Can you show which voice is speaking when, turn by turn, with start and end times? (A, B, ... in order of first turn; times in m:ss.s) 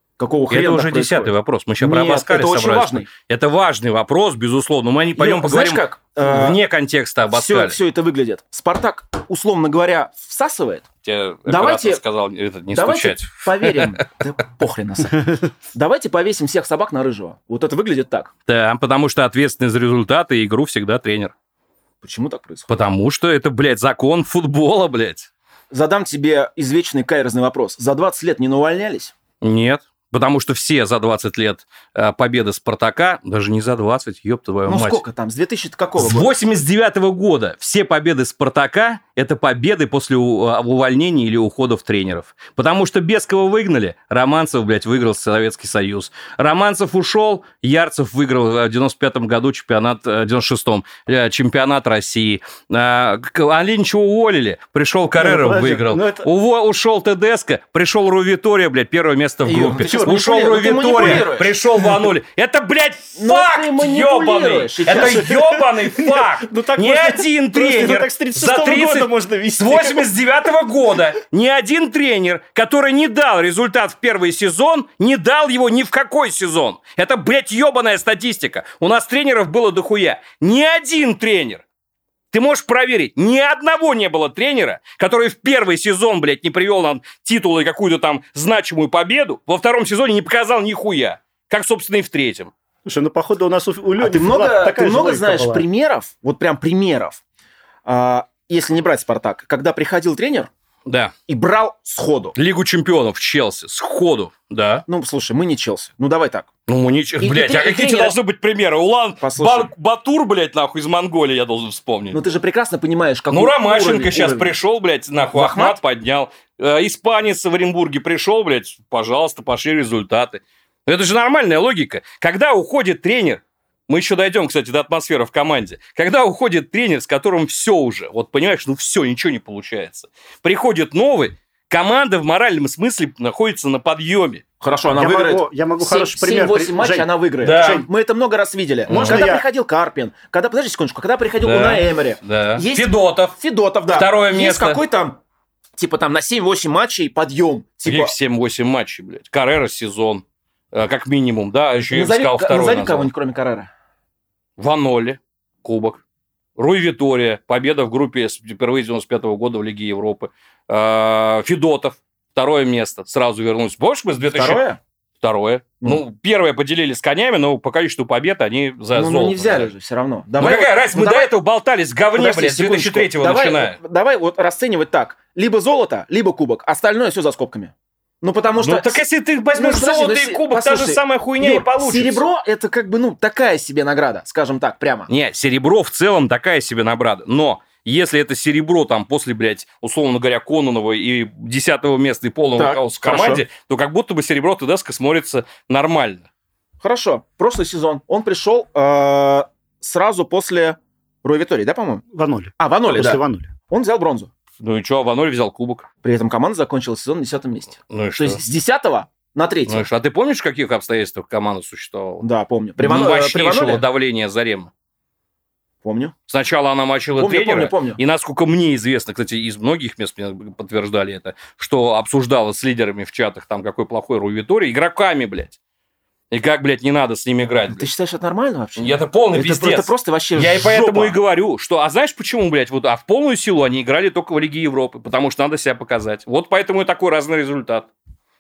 0:00.2-0:03.1 A
0:00.5-0:07.8 B
0:05.2-0:06.6 A
0:07.3-0:10.9 A
0:11.0-0:14.0 B
0:11.5-0:12.0 A
0:12.7-0:18.3 A
0:18.5-0:21.3 B
0:22.0-0:22.7 A
0:22.7-0:25.3 B
0:25.7-0:29.1 A
0:29.4-0:35.0 B
0:34.7-0:36.3 A
0:36.0-1:21.6 B
0:55.2-0:56.3 C
0:59.4-1:01.6 A
0:59.8-1:00.2 C
1:03.2-1:05.3 A
1:05.0-1:10.1 C
1:22.3-1:32.5 B
1:32.8-1:35.7 C
1:34.0-1:37.2 A
1:37.8-1:40.5 A
1:40.9-1:41.1 B
1:41.3-1:42.4 A
1:42.4-1:44.9 B
1:44.9-1:46.5 A
1:46.7-1:52.3 B
1:47.2-1:48.2 A
1:49.2-1:49.7 A
1:52.1-1:54.5 A
1:53.3-2:14.4 B
1:55.3-1:55.8 A
2:14.6-2:25.2 A
2:15.0-2:17.9 C
2:17.4-2:17.8 B
2:18.9-2:19.2 B
2:18.9-2:19.4 C
2:21.4-2:23.4 B
2:23.9-2:24.8 B
2:25.8-2:28.2 A
2:27.8-2:33.1 B
2:31.9-2:33.7 A
2:34.6-2:36.0 B
2:36.6-2:44.6 B
2:44.3-2:44.8 A
2:45.2-2:49.7 B
2:48.9-2:51.3 A
2:50.4-2:53.8 B
2:52.1-2:59.0 A
2:58.6-3:02.2 B
2:59.5-3:05.1 A
3:05.1-3:16.2 B
3:12.6-3:13.4 A
3:16.8-3:22.0 A
3:22.1-3:23.5 C
3:22.6-3:24.3 A
3:24.6-3:25.9 B
3:26.0-3:29.9 A
3:27.9-3:28.4 B
3:29.7-3:32.3 B
3:32.2-3:33.8 A
3:32.8-3:34.7 B
3:35.8-3:36.1 A
3:36.3-3:45.6 B
3:37.2-3:38.0 A
3:46.3-3:47.9 B
3:47.7-3:51.2 A
3:48.8-3:57.9 B